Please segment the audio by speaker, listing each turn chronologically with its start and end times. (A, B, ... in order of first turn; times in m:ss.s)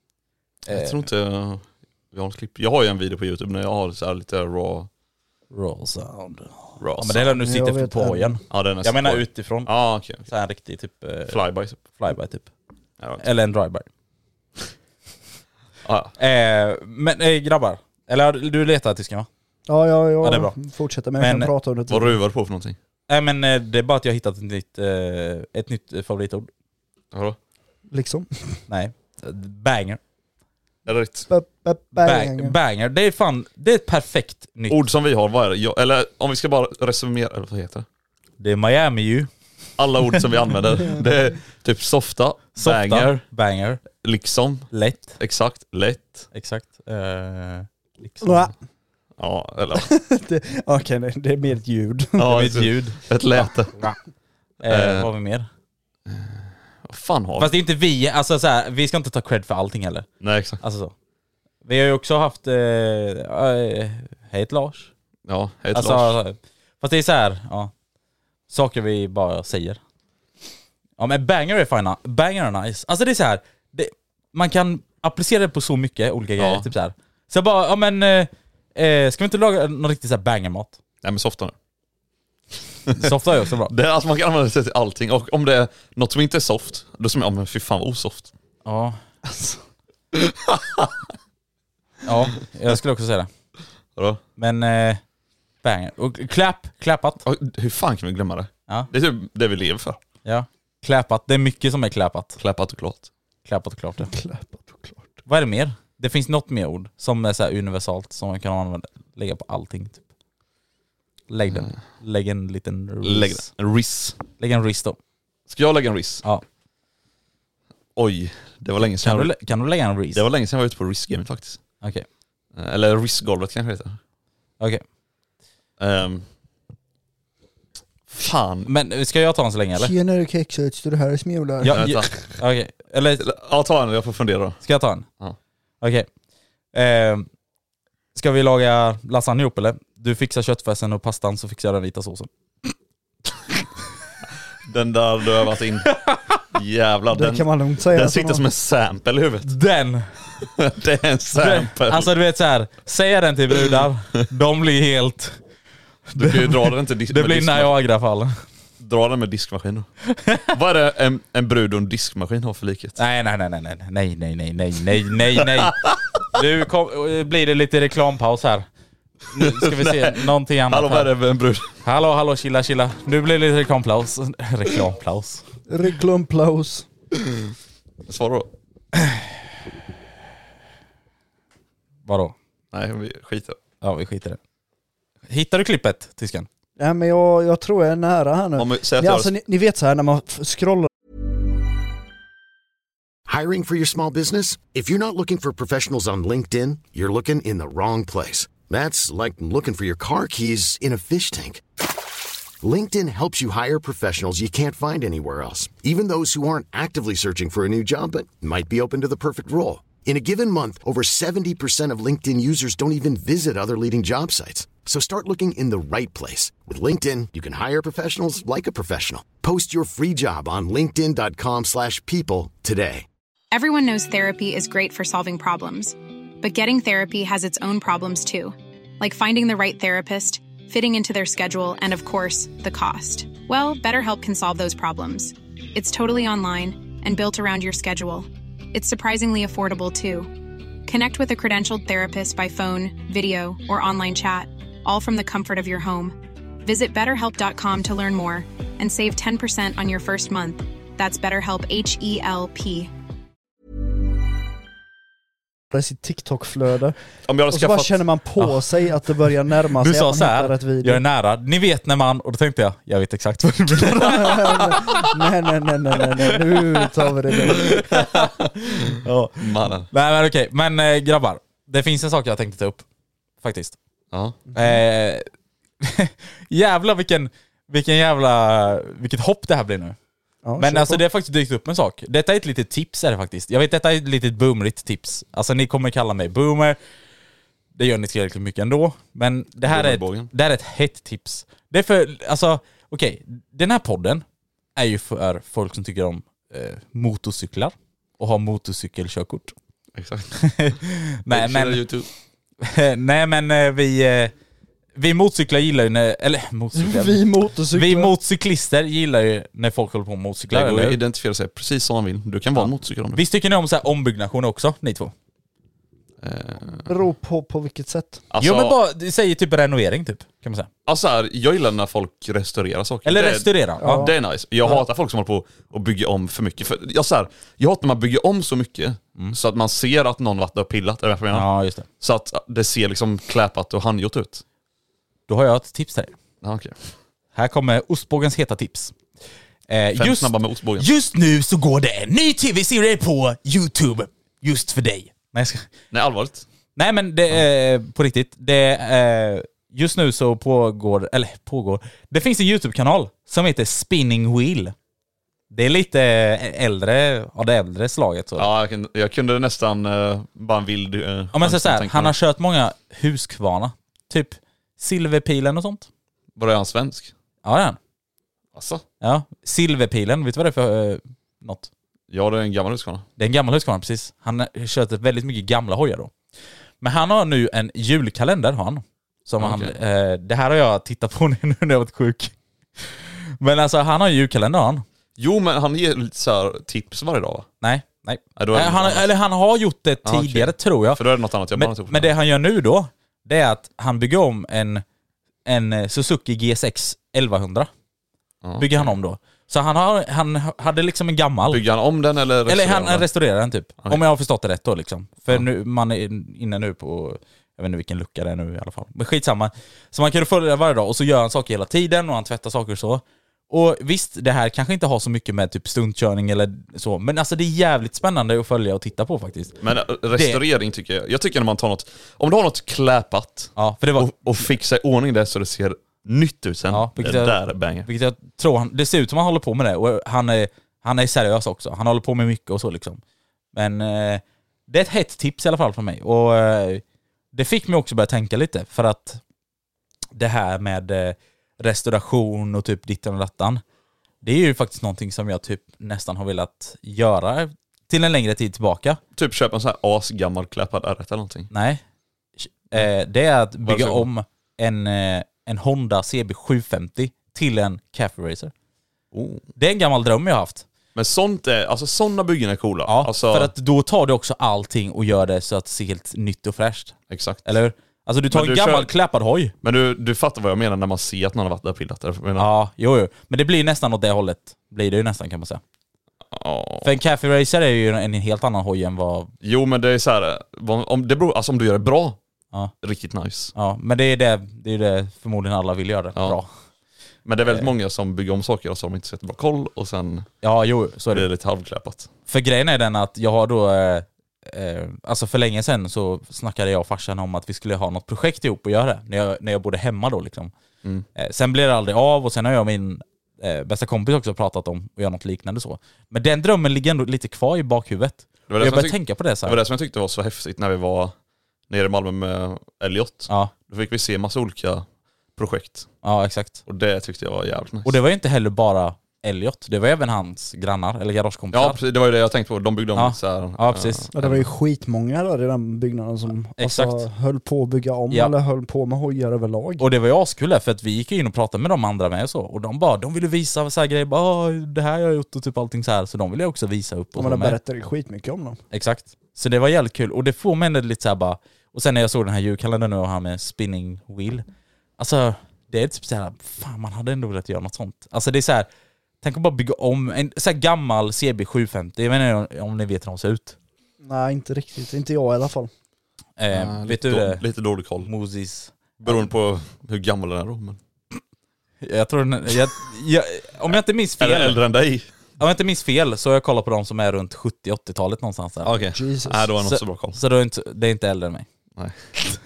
0:00.7-0:01.0 A
0:00.7-0:04.9 B
0:05.5-0:09.7 A
0:06.8-0:07.4 B
0:07.4-0:08.4 C
0:08.5-0:10.2 B
0:10.2-0:12.5 A
0:11.3-0:11.8 B
0:13.2-0:13.8 A
0:15.8-0:16.1 B
0:16.2-0:19.3 A
0:19.7-0:22.2 C
0:20.2-0:20.5 A
0:21.2-0:21.5 A
0:21.9-0:22.8 B
0:23.1-0:26.5 A
0:27.9-0:28.6 C
0:28.7-0:30.0 A
0:30.8-0:31.3 B
0:31.3-0:32.6 C
0:32.0-0:34.8 A
0:34.7-0:37.8 B
0:38.4-0:39.3 A
0:39.8-0:43.2 B
0:42.6-0:43.8 A
0:44.0-0:46.3 B
0:44.7-0:45.2 A
0:46.3-0:48.4 A
0:48.2-0:48.5 C
0:49.2-0:49.9 B
0:49.7-0:52.3 C
0:52.2-0:53.7 B
0:52.2-0:53.0 A
0:54.6-0:55.5 A
0:54.6-0:55.1 B
0:56.1-0:57.5 B
0:57.4-1:00.1 A
1:00.2-1:00.6 B
1:00.6-1:00.9 A
1:01.6-1:04.9 A
1:05.3-1:06.2 B
1:05.7-1:07.7 A
1:08.5-1:09.8 A
1:11.0-1:20.8 A
1:16.4-1:16.7 B
1:21.0-1:21.5 B
1:23.0-1:23.7 A
1:23.7-1:28.3 B
1:28.6-1:29.0 A
1:29.2-1:29.6 C
1:30.2-1:30.9 B
1:32.0-1:33.3 A
1:34.0-1:34.2 B
1:34.4-1:35.0 A
1:35.6-1:37.2 A
1:37.2-1:40.0 B
1:40.2-1:42.4 A
1:42.4-1:43.1 B
1:43.4-1:44.1 A
1:44.0-1:45.1 C
1:45.2-1:50.0 A
1:51.3-1:53.5 A
1:51.5-1:51.7 B
1:53.0-1:54.2 B
1:54.4-1:55.0 A
1:55.5-1:56.2 B
1:58.0-1:59.3 B
1:59.0-2:00.2 A
2:00.1-2:01.6 B
2:02.6-2:04.0 B
2:05.8-2:06.2 B
2:08.1-2:08.7 B
2:08.7-2:09.9 A
2:09.8-2:12.1 C
2:11.6-2:13.2 A
2:11.7-2:12.1 B
2:13.2-2:14.6 B
2:14.6-2:15.0 A
2:15.8-2:16.1 A
2:16.7-2:17.3 A
2:18.1-2:22.3 A
2:24.7-2:26.0 B
2:26.5-2:29.5 B
2:27.1-2:28.4 C
2:29.4-2:30.0 A
2:30.4-2:32.1 B
2:31.4-2:35.4 A
2:36.1-2:37.7 B
2:36.2-2:36.5 A
2:37.1-2:38.3 A
2:38.8-2:39.9 B
2:40.1-2:40.5 A
2:40.5-2:43.0 B
2:43.0-2:45.8 A
2:45.6-2:45.9 B
2:46.3-2:48.6 A
2:49.3-2:51.1 A
2:49.4-2:51.7 B
2:51.8-2:55.4 A
2:55.7-2:56.9 C
2:58.1-2:58.5 B
2:59.0-2:59.2 A
3:02.0-3:02.3 A
3:02.7-3:03.6 B
3:03.8-3:04.4 A
3:05.3-3:06.5 A
3:06.8-3:10.9 C
3:08.6-3:09.3 B
3:13.3-3:21.6 D
3:22.6-3:43.0 D
3:43.5-4:00.3 E
4:00.8-4:12.9 E
4:15.7-4:16.9 C
4:17.3-4:18.0 B
4:17.5-4:21.0 C
4:19.8-4:25.1 A
4:23.9-4:27.8 C
4:27.5-4:32.8 A
4:29.4-4:29.9 B
4:33.4-4:33.8 A
4:34.1-4:34.4 B
4:34.5-4:35.2 A
4:35.8-4:40.0 A
4:40.4-4:41.0 C
4:40.6-4:46.8 A
4:47.8-4:54.2 A
4:49.6-4:50.3 B
4:54.8-4:59.5 A
4:59.9-5:00.3 B
5:00.4-5:01.8 A
5:01.3-5:02.1 B
5:02.6-5:04.3 A
5:05.0-5:11.0 A
5:06.7-5:08.1 C
5:10.5-5:13.2 B
5:12.5-5:15.1 A
5:16.2-5:16.9 B
5:16.8-5:18.2 C
5:18.3-5:18.8 B
5:18.4-5:20.7 A
5:20.8-5:34.4 B
5:23.0-5:24.0 A
5:23.8-5:24.1 C
5:31.3-5:31.8 A
5:35.3-5:36.1 A
5:36.4-5:36.8 B
5:37.3-5:38.9 A
5:39.7-5:45.7 A
5:39.9-5:40.9 B
5:45.9-5:46.4 B
5:46.8-5:54.7 A
5:55.5-5:58.5 A
5:58.4-6:02.1 B
6:01.3-6:05.9 A
6:06.4-6:07.1 B
6:07.4-6:07.8 A
6:08.5-6:08.8 B
6:09.0-6:11.7 A
6:12.1-6:13.0 B
6:13.2-6:16.1 A
6:16.8-6:24.8 A
6:19.4-6:19.7 B
6:25.2-6:27.5 B
6:27.6-6:31.0 A
6:28.4-6:29.1 B
6:30.0-6:32.1 B
6:31.5-6:34.8 A
6:35.4-6:37.7 A
6:38.4-6:38.9 B
6:38.6-6:41.6 A
6:41.5-6:43.0 B
6:42.5-6:59.6 A
6:59.6-7:07.9 B
7:00.1-7:00.4 A
7:03.6-7:04.5 A
7:06.7-7:13.0 A
7:13.5-7:19.2 A
7:20.2-7:23.6 A
7:24.2-7:29.0 A
7:29.1-7:31.5 B
7:31.5-7:31.8 A
7:32.4-7:38.5 A
7:33.6-7:34.1 B
7:39.1-7:39.4 B
7:39.6-7:40.6 A
7:40.9-7:43.5 B
7:42.9-7:49.5 A
7:47.1-7:47.5 B
7:48.3-7:48.9 B
7:49.6-7:52.5 B
7:52.4-7:55.6 A
7:56.3-7:56.9 B
7:56.8-7:59.3 A
7:59.4-8:02.2 B
8:02.8-8:03.5 B
8:03.5-8:06.5 A
8:07.2-8:10.3 B
8:10.4-8:11.3 A
8:11.1-8:12.1 B
8:12.3-8:20.5 A
8:21.2-8:29.6 A
8:28.5-8:31.1 B
8:31.7-8:34.8 B
8:35.4-8:35.9 B
8:36.0-8:36.6 A
8:36.6-8:38.0 B
8:37.8-8:41.8 A
8:41.5-8:44.4 B
8:43.0-8:44.1 A
8:44.1-8:49.8 C
8:46.6-8:47.0 A
8:49.8-8:57.6 A
8:57.2-8:58.6 C
8:58.7-9:04.4 A
9:05.0-9:08.7 A
9:09.2-9:13.6 A
9:14.0-9:15.7 C
9:16.4-9:17.4 A
9:16.5-9:18.1 B
9:18.0-9:19.3 A
9:19.0-9:20.8 B
9:21.8-9:24.6 A
9:24.2-9:25.0 B
9:25.4-9:28.7 A
9:28.6-9:30.2 B
9:28.9-9:29.5 C
9:29.6-9:31.4 A
9:31.8-9:32.1 B